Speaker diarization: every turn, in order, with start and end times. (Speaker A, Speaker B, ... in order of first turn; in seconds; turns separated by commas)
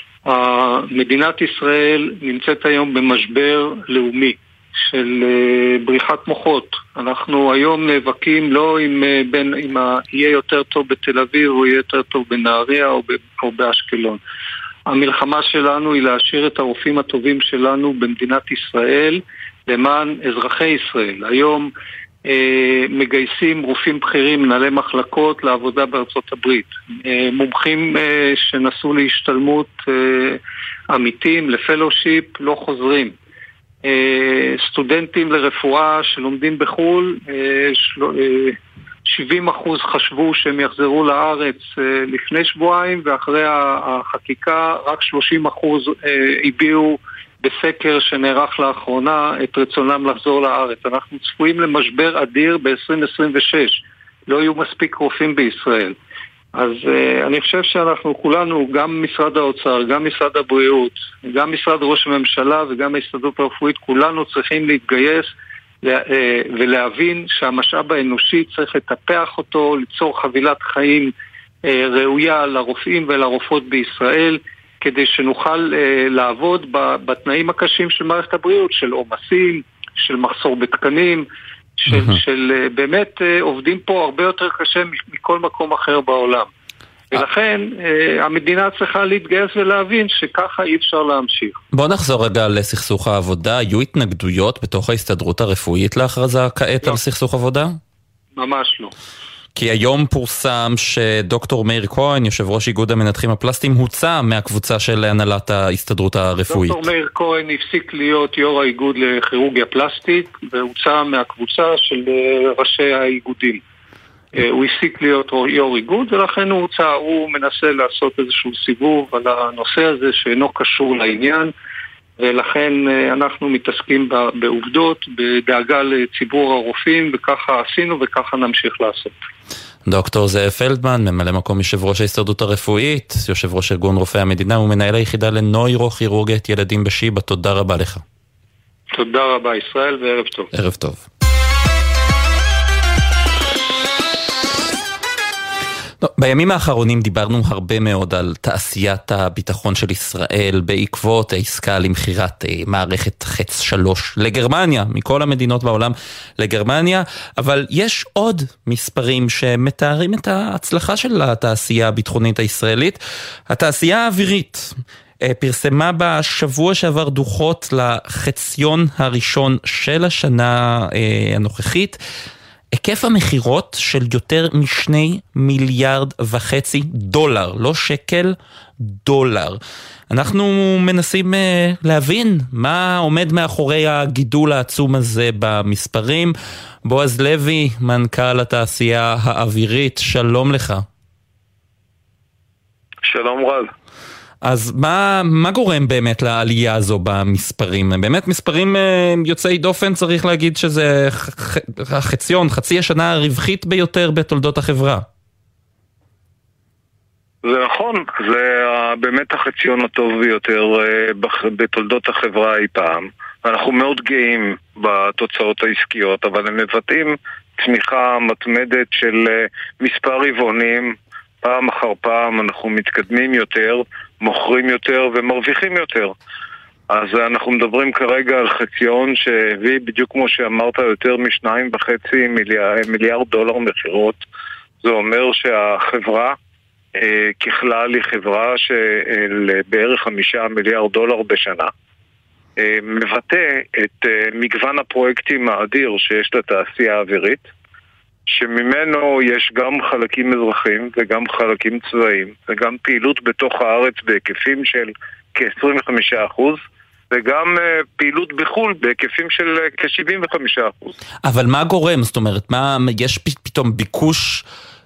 Speaker A: 0.2-14.2, Speaker A: 14.9-21.7, Speaker A: 22.2-30.4, Speaker A: 30.9-33.1, Speaker A: 33.8-56.0, Speaker A: 56.5-65.3, Speaker A: 65.8-71.1, Speaker A: 71.7-81.2, Speaker A: 81.8-86.5, Speaker B: 81.9-82.2, Speaker A: 87.1-91.6, Speaker B: 91.7-97.8, Speaker A: 98.4-98.9, Speaker B: 99.5-106.8, Speaker A: 106.5-113.6, Speaker A: 114.3-121.5, Speaker A: 122.2-129.1, Speaker B: 129.8-138.0, Speaker A: 138.9-140.5, Speaker B: 140.5-141.1, Speaker B: 146.0-172.0, Speaker B: 172.7-186.3, Speaker B: 186.8-190.8, Speaker C: 193.0-193.7, Speaker B: 194.4-205.1, Speaker C: 207.4-226.1, Speaker C: 226.9-234.2, Speaker C: 234.8-236.3, Speaker C: 236.9-241.7, Speaker C: 242.6-247.5, Speaker C: 248.3-256.6, Speaker C: 257.1-260.9, Speaker B: 261.2-264.4